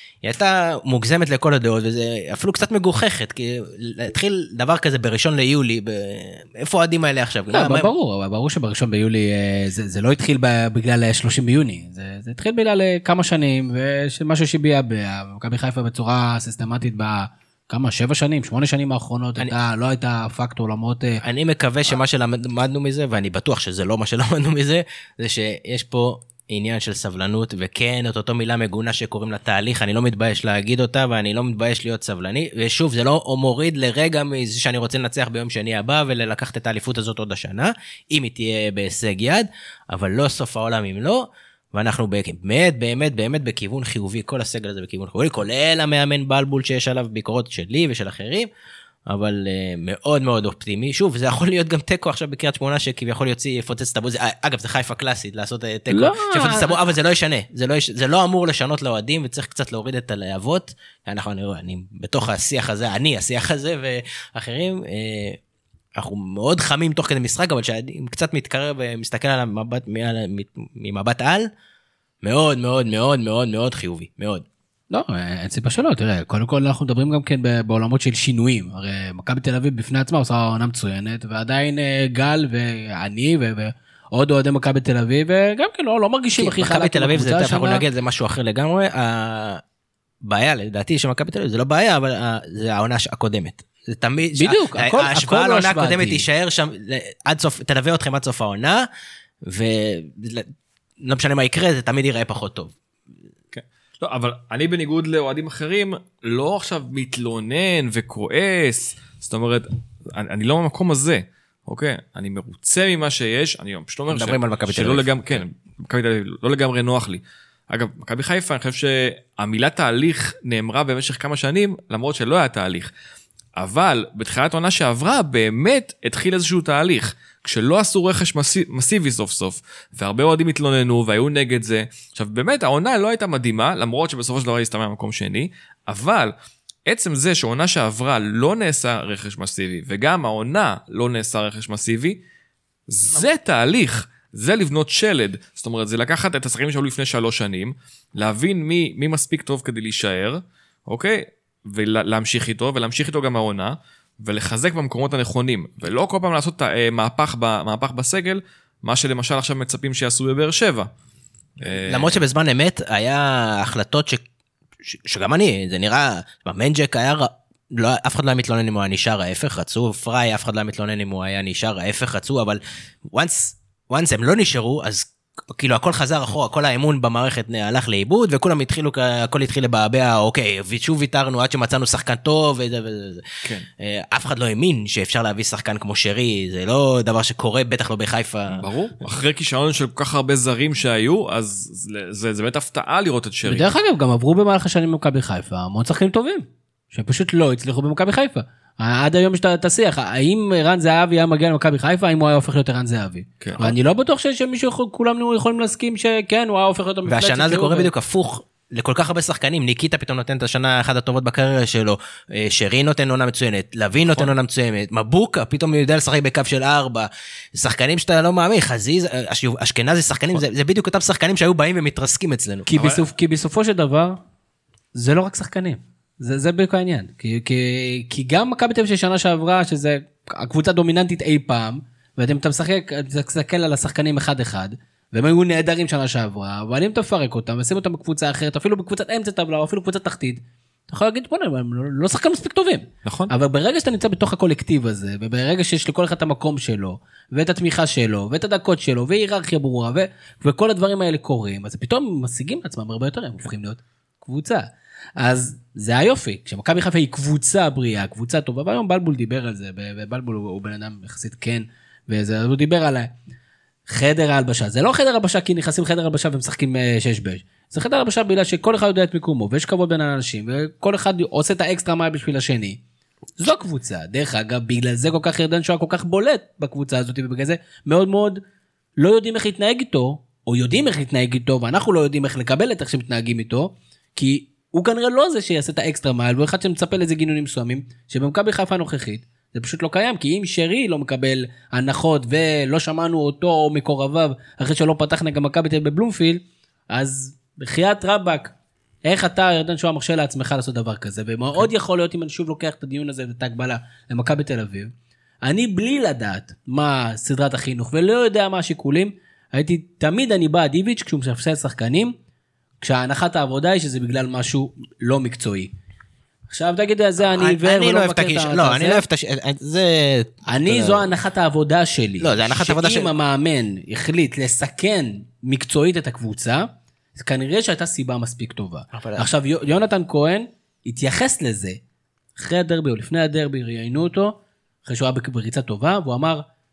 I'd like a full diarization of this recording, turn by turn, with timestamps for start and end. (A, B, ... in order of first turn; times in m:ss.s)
0:00.2-0:07.9 A
0:07.5-0:21.2 B
0:21.2-0:48.5 A
0:49.1-1:05.4 A
0:55.9-0:56.8 B
1:06.0-1:11.5 A
1:12.2-1:14.4 A
1:14.9-1:27.8 B
1:26.4-1:29.6 A
1:30.2-1:38.8 A
1:34.4-1:36.2 B
1:39.4-1:40.5 A
1:41.0-1:42.7 A
1:43.5-2:02.9 C
1:54.1-1:55.4 A
2:03.6-2:16.3 C
2:16.9-2:22.2 C
2:22.9-2:40.9 C
2:41.6-2:42.2 C
2:41.8-2:44.2 A
2:44.9-2:52.6 A
2:53.1-3:08.6 A
3:08.5-3:13.7 C
3:13.4-3:27.9 B
3:23.4-3:23.7 C
3:27.0-3:42.8 A
3:34.0-3:34.3 C
3:42.7-3:44.2 B
3:42.7-3:43.0 C
3:44.9-4:23.1 B
4:03.0-4:03.3 C
4:23.9-4:32.8 B
4:33.4-4:38.4 B
4:39.0-5:04.9 B
5:05.4-5:12.1 B
5:12.8-5:15.7 B
5:16.5-5:19.0 B
5:17.3-5:21.1 A
5:20.5-5:31.8 B
5:22.2-5:23.1 A
5:28.9-5:29.2 A
5:32.4-5:36.4 B